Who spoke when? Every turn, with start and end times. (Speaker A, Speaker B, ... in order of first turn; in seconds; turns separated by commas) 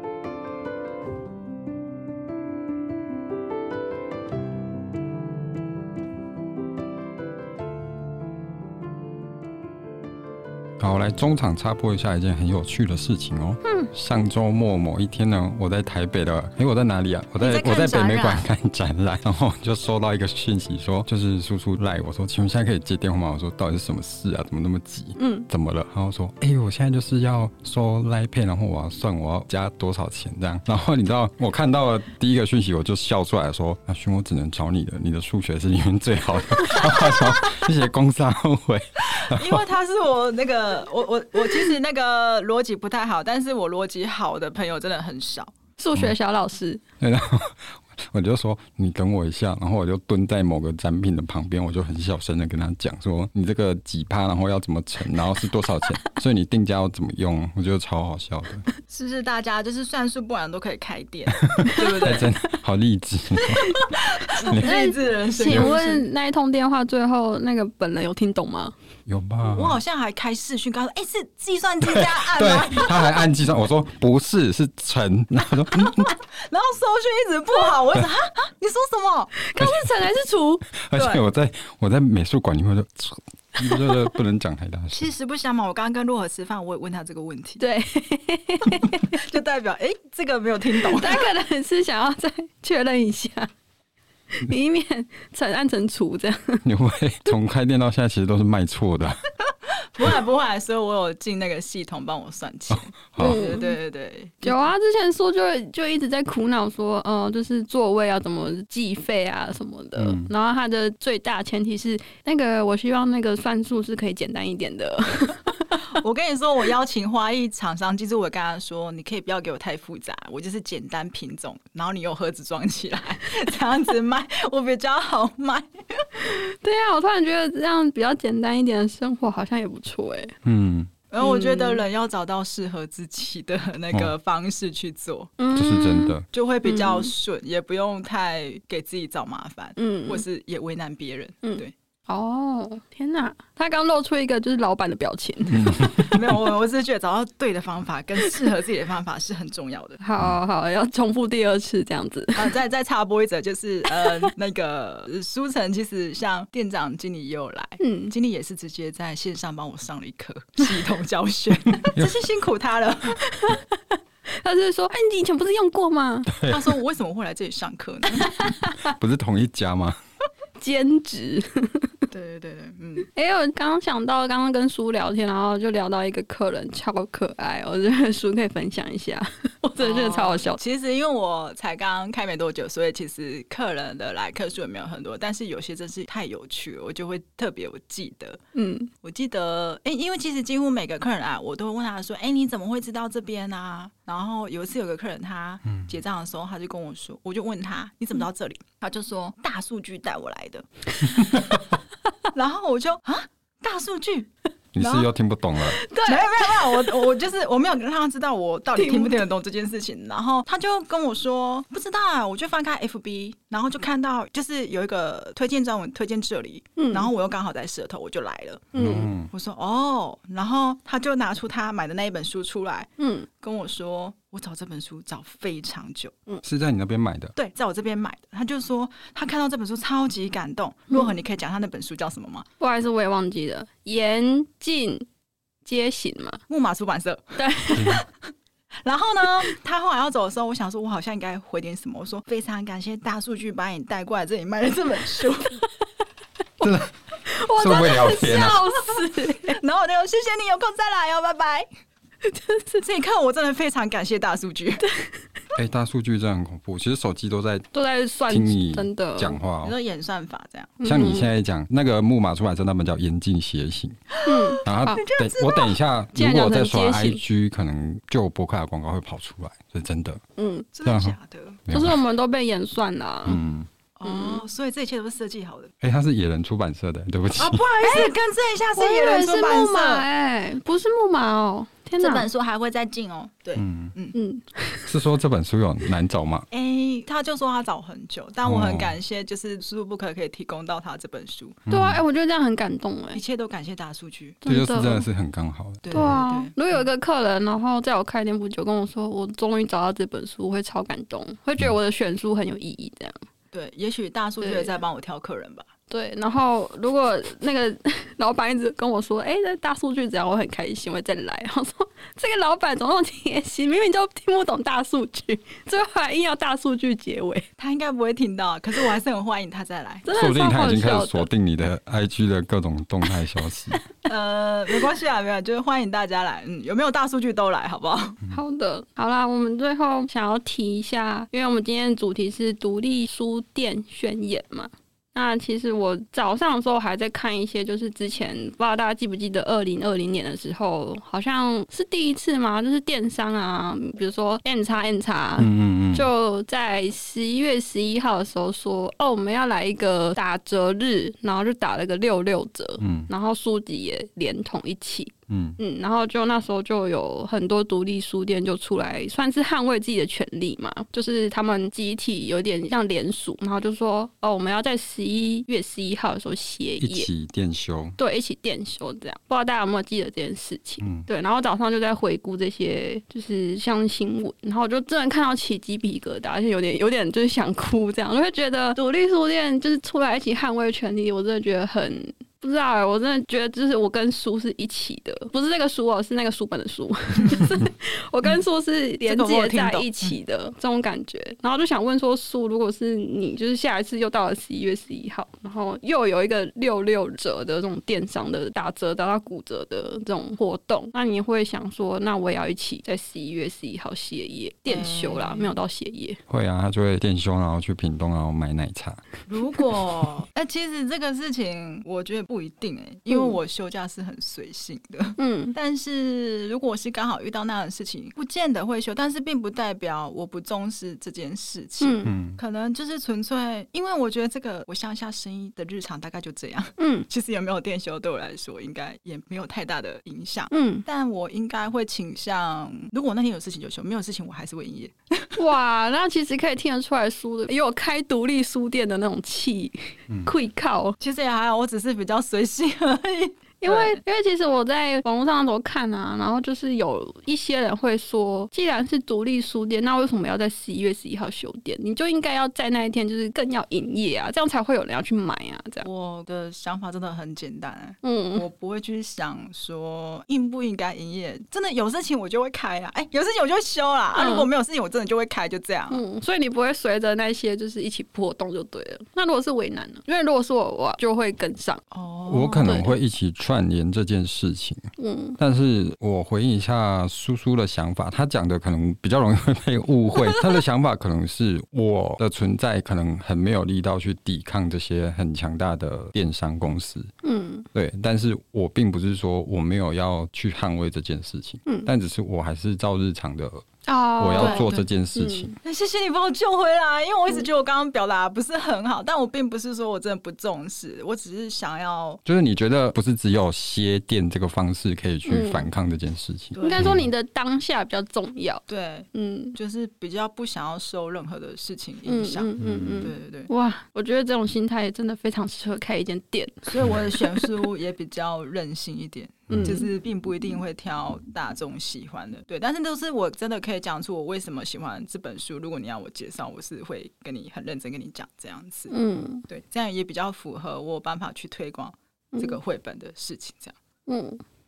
Speaker A: 10.8-39.6, Speaker B: 13.7-13.9, Speaker C: 17.4-18.4, Speaker B: 25.2-25.5, Speaker C: 39.0-45.5, Speaker B: 45.8-46.8, Speaker A: 47.0-58.7, Speaker C: 58.9-62.3, Speaker A: 61.5-63.8, Speaker C: 63.8-66.0, Speaker A: 64.5-64.7, Speaker B: 64.5-68.7, Speaker A: 65.5-65.7, Speaker A: 69.1-69.8, Speaker C: 69.4-73.1, Speaker A: 71.8-76.1, Speaker C: 75.8-79.3, Speaker B: 79.4-80.7, Speaker A: 79.6-79.9, Speaker A: 80.7-85.1, Speaker C: 81.0-81.2, Speaker B: 83.6-84.0, Speaker C: 84.9-87.6, Speaker B: 87.6-89.2, Speaker C: 88.7-91.2, Speaker B: 90.8-93.5, Speaker B: 94.3-96.7, Speaker A: 96.6-99.2, Speaker C: 99.7-104.7, Speaker A: 103.1-103.5, Speaker B: 103.2-103.8, Speaker B: 104.4-115.8, Speaker A: 110.0-110.3, Speaker C: 115.8-126.2, Speaker B: 126.2-130.3, Speaker A: 130.4-130.9, Speaker C: 131.1-135.3, Speaker B: 131.2-131.8, Speaker B: 135.4-137.1, Speaker A: 135.6-136.2, Speaker C: 136.3-141.7, Speaker B: 139.8-140.2, Speaker B: 141.4-146.1, Speaker A: 145.5-146.2, Speaker C: 146.0-150.0, Speaker B: 150.0-152.5, Speaker C: 152.3-163.2, Speaker B: 154.0-154.3, Speaker B: 157.8-158.1, Speaker B: 163.3-166.3, Speaker A: 166.3-166.7, Speaker C: 166.5-168.5, Speaker B: 168.2-168.9, Speaker A: 168.8-170.0, Speaker B: 170.6-171.9, Speaker C: 172.1-173.1, Speaker B: 173.1-180.6, Speaker C: 179.8-188.4, Speaker B: 188.5-188.9, Speaker C: 189.0-201.4, Speaker C: 202.3-205.1, Speaker A: 204.8-205.8, Speaker B: 205.8-207.1, Speaker C: 206.0-222.9, Speaker B: 208.8-209.2, Speaker B: 216.8-217.1, Speaker B: 218.7-219.1, Speaker A: 218.8-219.3, Speaker B: 223.0-223.3, Speaker C: 223.4-226.2, Speaker A: 226.4-227.3, Speaker C: 227.4-232.5, Speaker B: 232.6-235.1, Speaker B: 235.7-236.4, Speaker C: 236.5-238.0, Speaker B: 237.4-238.0, Speaker A: 237.7-238.0, Speaker C: 238.8-245.7, Speaker A: 246.6-246.9, Speaker B: 247.3-249.6, Speaker A: 247.5-248.6, Speaker C: 249.4-251.7, Speaker B: 252.2-252.8, Speaker C: 252.8-254.9, Speaker A: 255.5-257.7, Speaker B: 257.7-259.4, Speaker A: 258.3-259.7, Speaker C: 259.6-260.8, Speaker B: 260.8-261.3, Speaker A: 260.8-264.0, Speaker C: 264.1-265.7, Speaker B: 264.3-265.0, Speaker A: 264.6-270.2, Speaker B: 266.1-267.2, Speaker B: 270.4-270.7, Speaker C: 270.7-271.6, Speaker A: 270.9-271.2, Speaker A: 271.7-272.0, Speaker B: 271.7-273.4, Speaker A: 273.3-273.7, Speaker C: 274.0-275.7, Speaker B: 274.1-274.4, Speaker A: 275.8-277.7, Speaker C: 277.4-280.1, Speaker B: 277.9-278.1, Speaker B: 278.8-282.3, Speaker C: 282.0-284.1, Speaker A: 283.6-283.9, Speaker B: 284.1-284.9, Speaker A: 284.9-286.5, Speaker C: 286.5-291.6, Speaker A: 288.5-289.0, Speaker A: 291.7-292.0, Speaker B: 291.7-293.2, Speaker C: 293.1-294.4, Speaker B: 294.4-295.1, Speaker A: 294.5-296.2, Speaker C: 295.8-296.8, Speaker B: 295.9-303.2, Speaker C: 303.5-305.7, Speaker B: 304.4-304.8, Speaker B: 305.9-317.5, Speaker C: 317.6-320.1, Speaker B: 320.1-321.3, Speaker A: 320.1-323.8, Speaker C: 324.1-328.2, Speaker B: 328.3-367.1, Speaker A: 345.4-346.1, Speaker A: 352.8-353.1, Speaker A: 355.3-355.6, Speaker A: 366.8-368.0, Speaker B: 368.0-406.2, Speaker A: 370.8-371.1, Speaker C: 389.0-390.1, Speaker C: 404.7-405.5, Speaker A: 406.3-409.0, Speaker C: 409.3-435.4, Speaker B: 415.2-415.6, Speaker B: 421.8-422.1, Speaker A: 422.0-422.4, Speaker B: 426.8-427.1, Speaker B: 430.5-430.9, Speaker B: 435.4-441.0, Speaker C: 441.0-444.0, Speaker B: 443.6-455.9, Speaker C: 455.8-466.0, Speaker B: 458.0-458.4, Speaker B: 464.1-464.5, Speaker B: 465.9-471.8, Speaker C: 471.9-472.9, Speaker A: 472.3-474.9, Speaker B: 472.6-472.9, Speaker B: 475.0-475.4, Speaker A: 475.4-487.1, Speaker B: 487.2-487.7, Speaker A: 487.7-493.6, Speaker B: 493.9-495.6, Speaker A: 494.2-495.6, Speaker C: 494.4-494.9, Speaker C: 495.6-502.2, Speaker A: 502.3-507.1, Speaker B: 505.3-505.7, Speaker C: 506.5-507.0, Speaker B: 506.6-509.6, Speaker C: 508.7-513.5, Speaker B: 512.1-517.5, Speaker A: 512.6-513.1, Speaker C: 516.7-528.9, Speaker A: 519.5-519.8, Speaker B: 519.5-519.9, Speaker B: 528.9-529.5, Speaker C: 529.5-533.8, Speaker B: 534.1-534.4